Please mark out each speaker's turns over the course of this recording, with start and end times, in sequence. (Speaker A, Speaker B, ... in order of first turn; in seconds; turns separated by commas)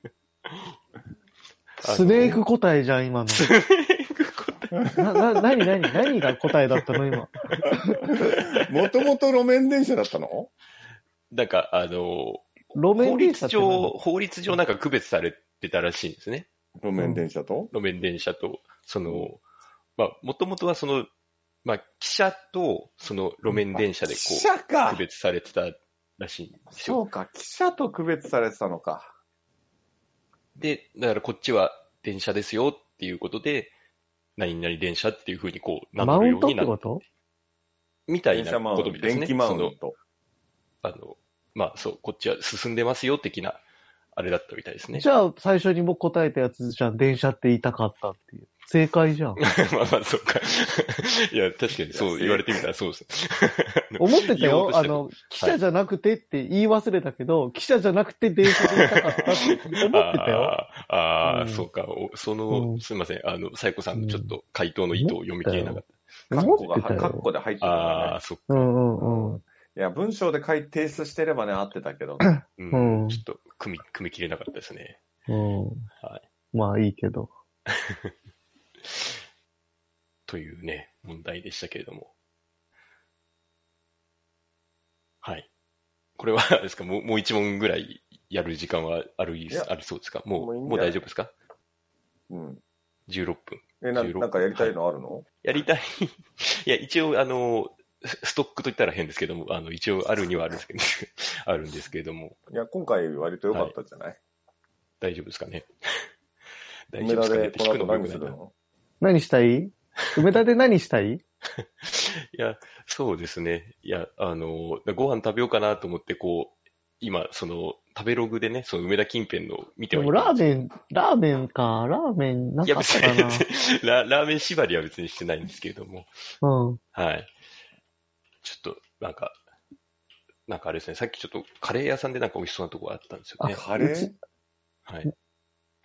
Speaker A: 1.8-2.4, Speaker B: 1.8-3.5, Speaker A: 3.3-4.8, Speaker B: 4.9-8.1, Speaker A: 5.8-6.9, Speaker C: 8.2-10.5, Speaker A: 11.3-16.5, Speaker B: 12.7-13.9, Speaker C: 16.8-17.7, Speaker B: 17.0-17.2, Speaker A: 17.7-19.4, Speaker A: 20.0-21.1, Speaker A: 21.6-27.0, Speaker C: 23.6-25.0, Speaker C: 26.7-29.1, Speaker A: 30.6-33.7, Speaker A: 34.4-36.8, Speaker B: 36.0-37.0, Speaker A: 38.1-39.8, Speaker C: 38.3-39.9, Speaker A: 40.8-43.6, Speaker A: 44.1-45.0, Speaker B: 44.9-49.4, Speaker A: 49.4-55.6, Speaker C: 51.9-52.6, Speaker B: 54.0-60.6, Speaker A: 58.5-59.4, Speaker C: 58.6-59.4, Speaker A: 59.9-65.9, Speaker B: 61.2-61.7, Speaker B: 62.5-62.8, Speaker B: 63.9-64.3, Speaker B: 64.9-67.3, Speaker C: 66.3-68.2, Speaker A: 67.6-68.7, Speaker B: 68.5-69.4, Speaker C: 69.0-72.2, Speaker B: 72.2-73.2, Speaker A: 72.6-75.0, Speaker B: 75.3-75.8, Speaker B: 76.5-77.3, Speaker A: 77.9-78.1, Speaker A: 80.3-82.1, Speaker A: 85.2-85.5, Speaker A: 86.2-91.3, Speaker C: 90.4-91.0, Speaker C: 92.3-92.6, Speaker A: 93.1-94.8, Speaker C: 93.8-95.2, Speaker A: 95.4-102.4, Speaker C: 102.5-104.2, Speaker A: 105.0-106.0, Speaker A: 106.9-108.3, Speaker C: 107.0-108.5, Speaker B: 109.0-111.2, Speaker A: 111.8-120.4, Speaker B: 119.9-123.4, Speaker A: 122.6-126.1, Speaker B: 126.4-126.8, Speaker A: 126.9-127.3, Speaker A: 128.4-129.4, Speaker A: 130.5-133.6, Speaker B: 133.4-134.2, Speaker C: 133.5-134.1, Speaker A: 134.9-135.1